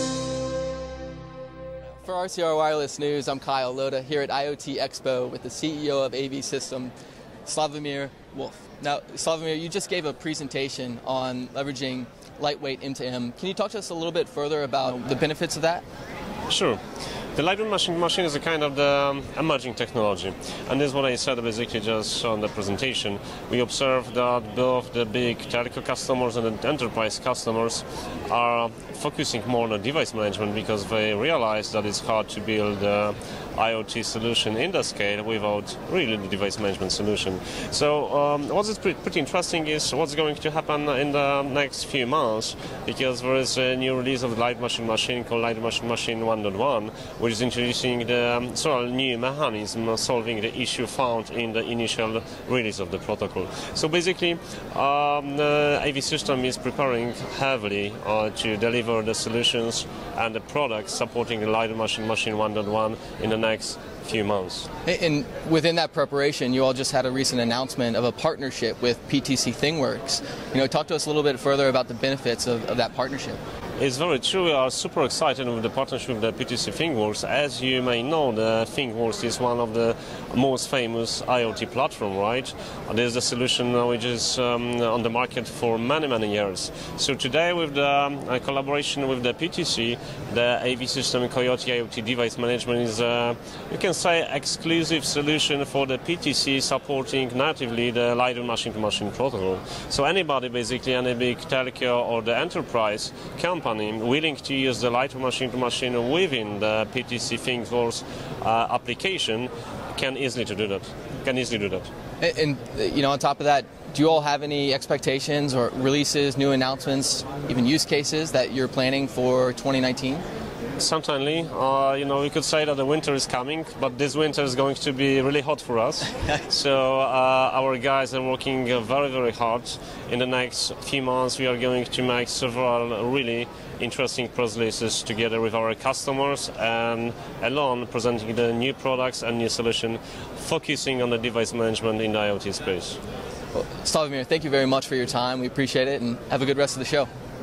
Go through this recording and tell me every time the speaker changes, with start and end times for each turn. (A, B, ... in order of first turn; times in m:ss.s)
0:02.0-0:06.9 A
0:07.5-0:15.8 A
0:16.5-0:16.8 B
0:17.4-1:04.7 B
1:04.9-1:13.4 A
1:13.8-1:51.9 B
1:52.2-2:00.2 A
2:00.8-2:23.0 B
2:23.6-2:27.1 A